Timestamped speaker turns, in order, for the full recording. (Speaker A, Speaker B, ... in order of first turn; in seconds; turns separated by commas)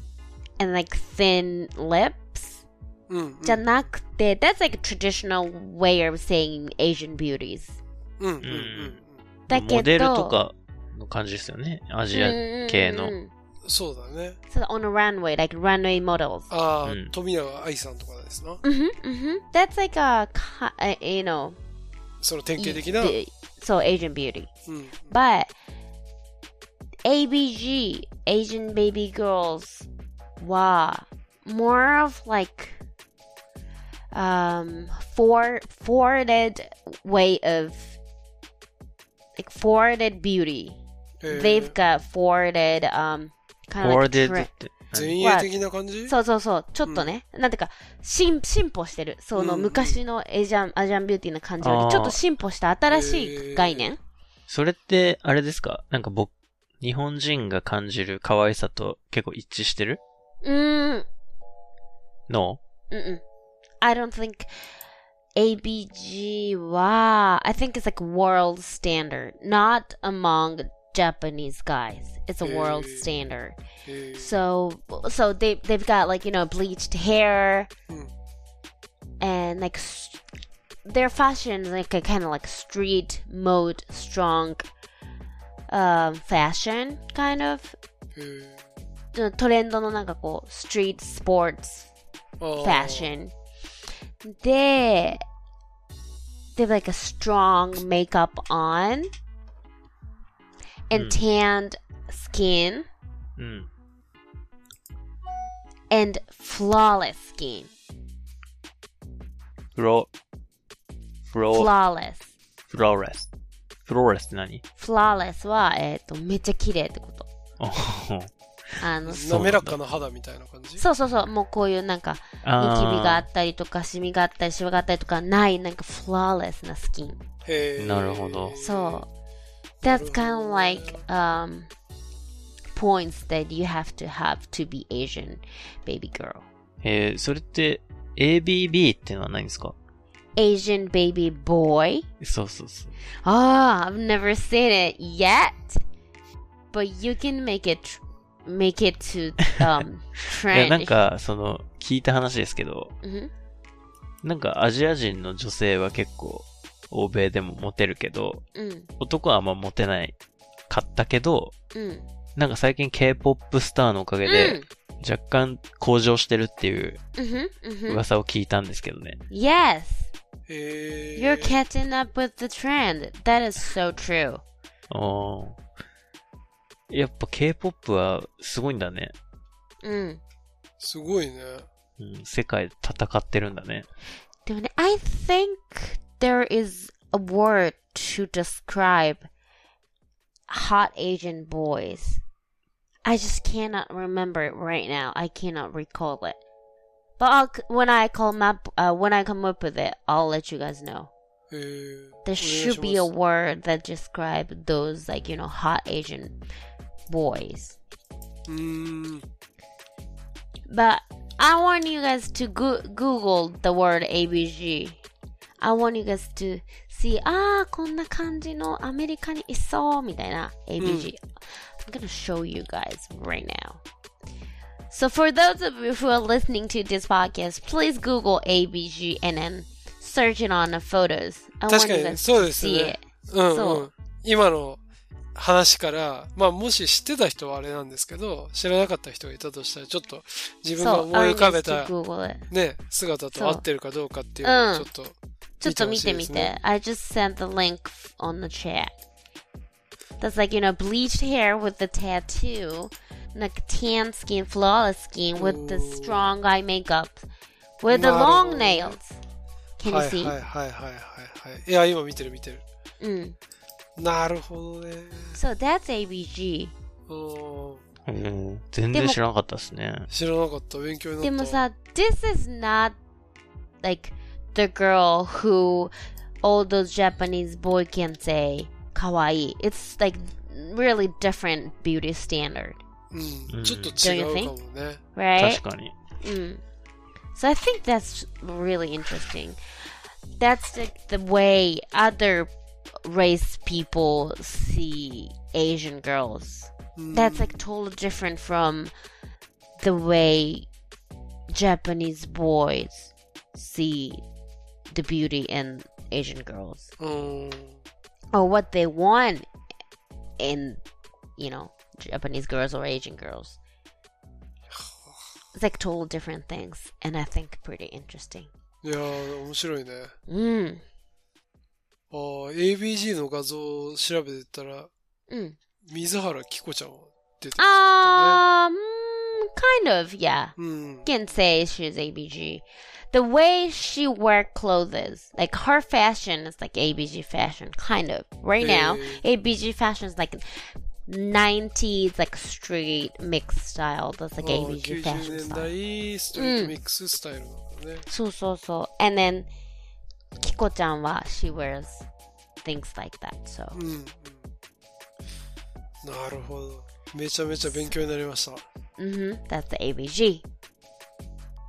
Speaker A: 0.6-2.6, Speaker B: 3.1-3.6, Speaker A: 3.4-7.8, Speaker B: 8.2-9.2, Speaker C: 8.4-9.0, Speaker A: 9.5-10.4, Speaker C: 9.5-13.1, Speaker A: 12.1-13.3, Speaker B: 13.6-14.4, Speaker A: 14.5-16.5, Speaker B: 16.5-18.6, Speaker C: 16.9-17.1, Speaker A: 18.6-21.6, Speaker B: 22.2-23.2, Speaker A: 22.6-24.5, Speaker B: 24.7-25.1, Speaker A: 25.1-25.5, Speaker A: 27.0-29.9, Speaker A: 30.4-32.8, Speaker A: 34.1-38.0, Speaker A: 39.4-40.8, Speaker B: 41.2-41.7, Speaker A: 41.3-44.5, Speaker C: 43.8-45.2, Speaker B: 44.9-46.1, Speaker A: 45.1-45.5, Speaker A: 46.1-54.0, Speaker B: 46.9-47.1, Speaker B: 49.4-50.0, Speaker C: 51.6-52.2, Speaker B: 52.9-53.9, Speaker C: 54.5-60.0, Speaker A: 60.4-61.0, Speaker C: 62.3-62.6, Speaker A: 62.9-63.2, Speaker A: 63.8-64.5, Speaker A: 65.4-73.6, Speaker B: 72.4-73.1, Speaker B: 73.8-74.4, Speaker A: 74.2-77.7, Speaker A: 79.2-80.2, Speaker A: 80.8-84.7, Speaker A: 85.7-87.8, Speaker B: 88.1-88.6, Speaker A: 89.1-91.9, Speaker B: 92.4-93.1, Speaker A: 92.6-93.3, Speaker A: 94.2-95.2, Speaker A: 96.5-99.1, Speaker A: 100.9-102.9, Speaker C: 103.4-103.7, Speaker A: 105.9-107.7, Speaker C: 109.8-110.1, Speaker C: 111.3-111.7, Speaker A: 111.5-112.2, Speaker C: 112.7-113.3, Speaker C: 113.8-114.6, Speaker A: 114.8-117.3, Speaker C: 117.6-118.3, Speaker A: 118.8-119.3, Speaker B: 119.1-120.8, Speaker C: 119.2-119.8, Speaker A: 120.8-127.2, Speaker C: 122.4-123.3, Speaker B: 127.4-129.0, Speaker C: 127.8-128.6, Speaker A: 128.6-129.1, Speaker B: 129.8-131.0, Speaker A: 129.8-131.7, Speaker A: 132.7-136.4, Speaker C: 136.8-139.7, Speaker A: 140.3-142.1, Speaker C: 142.2-142.9, Speaker A: 143.2-145.8, Speaker A: 146.7-150.9, Speaker C: 150.5-152.9, Speaker A: 153.0-153.3, Speaker C: 154.2-158.4, Speaker A: 158.5-158.9, Speaker C: 159.0-160.1, Speaker C: 160.7-161.5, Speaker A: 161.7-162.0, Speaker C: 162.3-167.0, Speaker A: 164.2-164.7, Speaker A: 167.2-168.0, Speaker C: 167.9-169.2, Speaker A: 169.3-170.1, Speaker B: 170.5-171.6, Speaker A: 171.2-174.4, Speaker C: 174.9-175.6, Speaker C: 176.9-179.1, Speaker A: 179.8-180.2, Speaker B: 180.8-181.7, Speaker C: 182.0-183.8, Speaker A: 184.4-189.3, Speaker A: 190.5-192.2, Speaker A: 193.0-196.4, Speaker A: 197.2-201.1, Speaker B: 201.5-203.1, Speaker A: 202.2-206.4, Speaker A: 207.1-207.8, Speaker B: 208.5-209.2, Speaker A: 210.7-215.0, Speaker A: 215.6-223.8, Speaker B: 220.8-221.1, Speaker A: 224.9-233.9, Speaker B: 231.7-234.8, Speaker B: 235.3-241.9, Speaker A: 240.8-242.4, Speaker B: 242.5-246.5, Speaker A: 243.3-243.6, Speaker A: 244.4-244.9, Speaker A: 245.6-249.0, Speaker A: 250.2-257.2, Speaker B: 255.3-256.3, Speaker A: 257.8-259.2, Speaker B: 257.9-259.0, Speaker A: 259.8-260.4, Speaker B: 259.8-262.6, Speaker A: 263.0-263.4, Speaker B: 263.9-265.4, Speaker A: 265.3-266.7, Speaker B: 267.1-267.8, Speaker C: 268.1-270.1, Speaker A: 268.9-269.2, Speaker B: 270.1-271.6, Speaker A: 271.2-272.9, Speaker A: 273.8-275.9, Speaker A: 276.4-282.8, Speaker B: 283.1-285.0, Speaker C: 283.5-284.0, Speaker A: 284.0-284.5, Speaker A: 285.1-285.6, Speaker C: 285.4-285.9, Speaker A: 286.2-286.6, Speaker A: 287.3-289.6, Speaker A: 290.4-292.5, Speaker A: 293.0-298.9, Speaker B: 297.0-297.6, Speaker A: 299.8-300.7, Speaker A: 301.5-304.2, Speaker A: 304.9-306.9, Speaker B: 307.0-307.8, Speaker A: 308.3-309.4, Speaker A: 310.4-310.8, Speaker A: 311.4-313.6, Speaker A: 315.5-318.5, Speaker B: 318.8-320.1, Speaker A: 320.3-320.8, Speaker B: 322.1-324.9, Speaker A: 325.3-325.6, Speaker B: 325.9-328.4, Speaker A: 327.6-330.5, Speaker B: 330.6-331.1, Speaker A: 331.0-345.7, Speaker B: 338.6-339.2, Speaker B: 344.4-348.1, Speaker A: 346.3-346.7, Speaker A: 348.1-349.5, Speaker A: 350.4-352.1, Speaker A: 352.6-353.8, Speaker B: 353.7-354.4, Speaker B: 356.0-358.6, Speaker A: 359.0-360.4